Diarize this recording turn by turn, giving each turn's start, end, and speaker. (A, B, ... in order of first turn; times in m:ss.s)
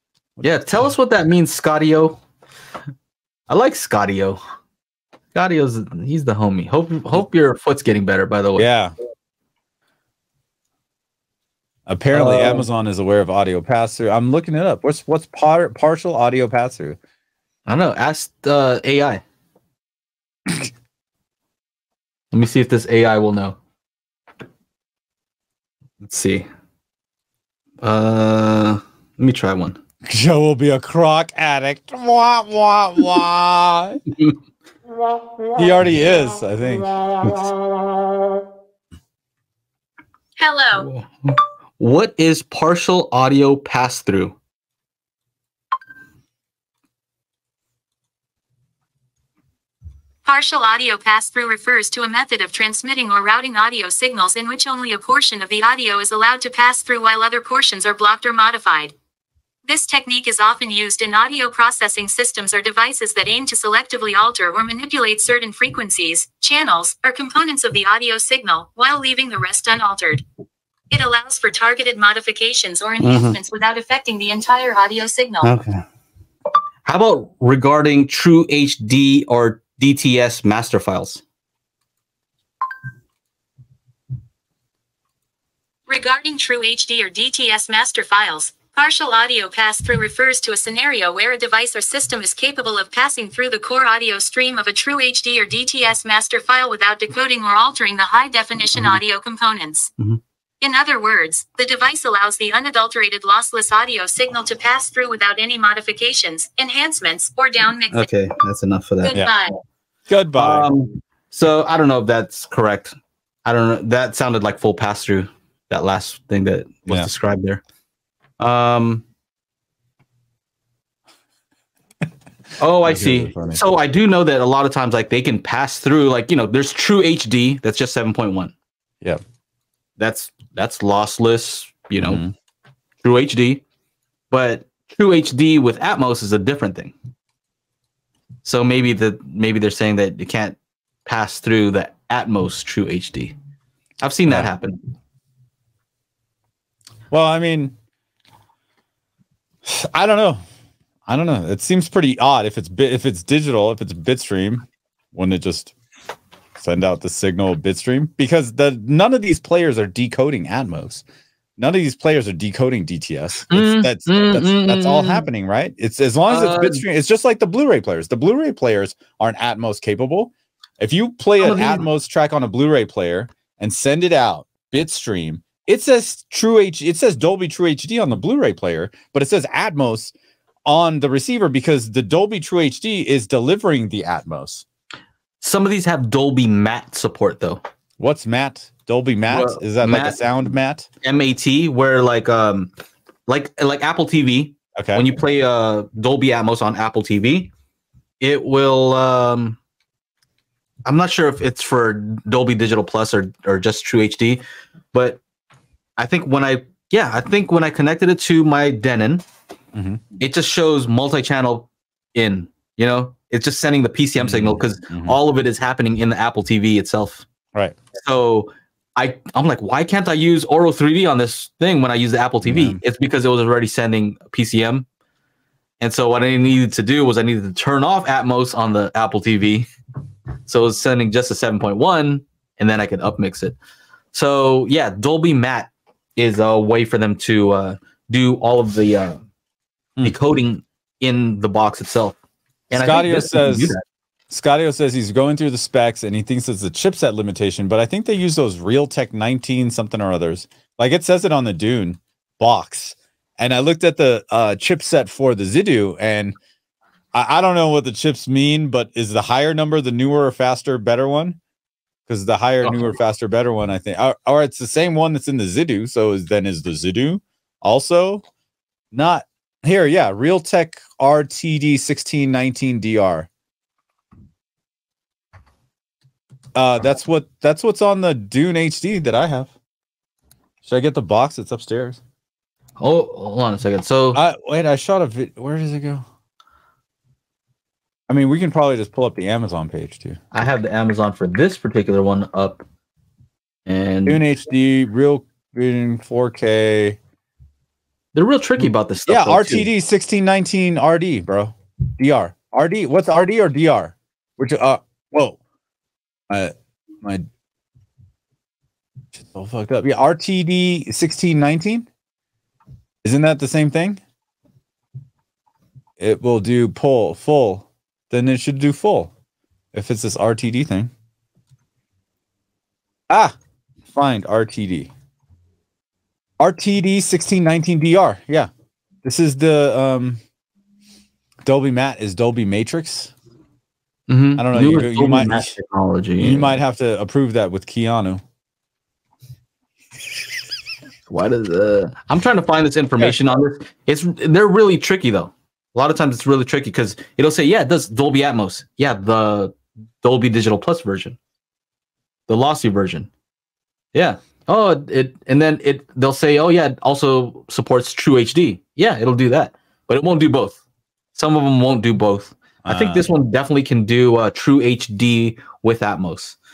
0:00.4-0:02.2 A
0:03.5-0:04.4 A
0:05.3-0:08.7 A
0:08.6-0:08.9 B
0:11.9-0:17.0 B
0:12.1-0:12.7 A
0:17.7-0:19.2 A
0:22.3-0:23.6 A
0:26.0-0:26.5 A
0:27.8-0:29.8 A
0:30.0-0:34.0 B
0:35.6-0:37.5 B
0:40.4-0:40.9 C
0:40.8-0:44.4 A
0:50.2-0:58.9 C
0:59.6-1:10.2 C
1:10.9-1:15.5 C
1:13.0-1:13.4 A
1:15.4-1:15.8 A
1:16.8-1:21.2 A
1:25.9-1:39.9 C
1:38.8-1:39.0 A
1:40.6-1:48.1 C
1:47.9-1:49.2 A
1:49.0-1:49.6 C
1:50.1-1:50.7 B
1:50.4-1:57.6 A
1:58.4-1:59.0 A
2:02.6-2:08.5 A
2:02.8-2:03.6 B
2:10.0-2:12.2 A
2:12.0-2:12.3 B
2:13.0-2:13.6 A
2:14.3-2:17.0 A
2:18.4-2:23.4 A
2:24.0-2:24.8 A
2:27.1-2:27.7 B
2:29.6-2:30.4 B
2:31.1-2:35.7 B
2:36.6-2:41.0 B
2:41.6-3:00.1 B
2:43.5-2:45.3 A
2:46.3-2:46.8 A
2:51.4-2:51.8 A
3:00.7-3:04.6 B
3:05.4-3:07.6 A
3:08.0-3:10.9 B
3:09.3-3:10.2 A
3:11.0-3:12.7 A
3:13.3-3:17.5 A
3:14.8-3:15.0 B
3:18.2-3:19.6 A
3:20.8-3:24.4 A
3:24.9-3:25.2 A
3:26.0-3:29.3 A
3:29.7-3:30.0 B
3:30.2-3:37.3 A
3:34.2-3:35.2 B
3:38.0-3:44.9 A
3:42.4-3:42.8 B
3:45.8-3:49.7 A
3:50.5-3:53.6 A
3:54.1-3:59.2 A
4:00.0-4:02.2 A
4:02.7-4:03.8 A
4:02.7-4:03.8 B
4:04.3-4:16.4 B
4:17.1-4:21.4 B
4:22.1-4:28.2 B
4:22.6-4:22.9 A
4:28.9-4:33.3 B
4:36.6-4:39.5 B
4:40.6-4:42.0 B
4:42.8-4:44.2 A
4:44.1-4:46.0 B
4:48.1-4:50.2 B
4:50.3-4:52.6 A
4:53.7-4:54.2 A
4:54.1-4:57.0 B
4:58.1-4:59.7 A
4:58.6-5:05.4 B
5:06.3-5:07.2 B
5:09.2-5:11.9 B
5:13.0-5:14.0 B
5:16.0-5:19.1 B
5:19.7-5:20.9 B
5:23.1-5:23.4 B
5:23.9-5:24.9 B
5:26.4-5:28.5 B
5:29.0-5:30.2 B
5:31.5-5:33.1 B
5:34.1-5:36.6 A
5:34.4-5:35.5 B
5:36.2-5:38.2 B
5:41.1-5:51.2 A
5:52.3-5:53.1 A
5:53.9-6:00.6 A
6:01.1-6:06.4 A
6:02.6-6:03.1 B